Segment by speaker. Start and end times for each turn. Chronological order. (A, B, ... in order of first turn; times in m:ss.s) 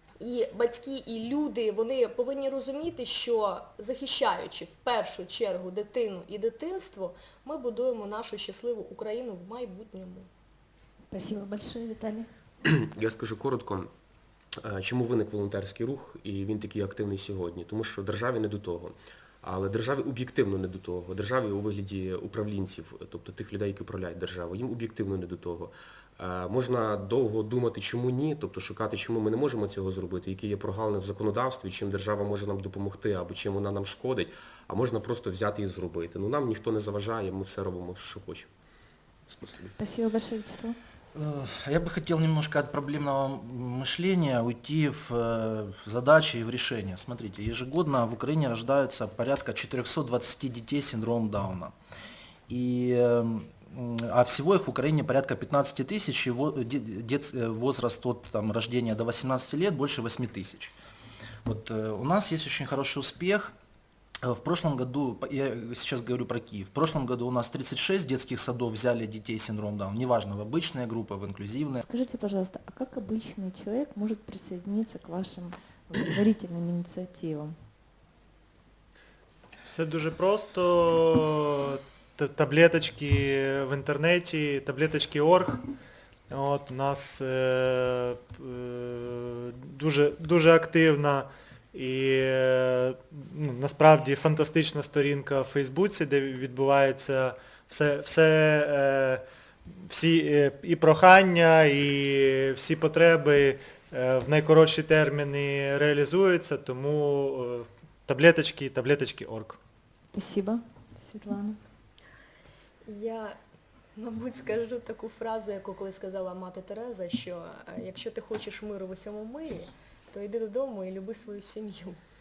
0:00.2-0:10.3 A
0:11.1-0:12.3 B
0:12.7-0:13.9 C
0:14.6-0:38.5 C
0:39.3-0:39.8 C
0:39.8-0:40.8 B
0:41.1-0:51.7 D
0:52.5-1:00.8 D
1:01.4-1:03.5 D
1:04.2-1:11.8 D
1:11.8-1:17.5 B
1:19.6-1:25.6 E
1:26.3-1:39.2 E
1:39.8-1:49.6 E
1:50.1-1:51.6 B
1:52.8-1:53.4 A
1:54.0-2:02.0 A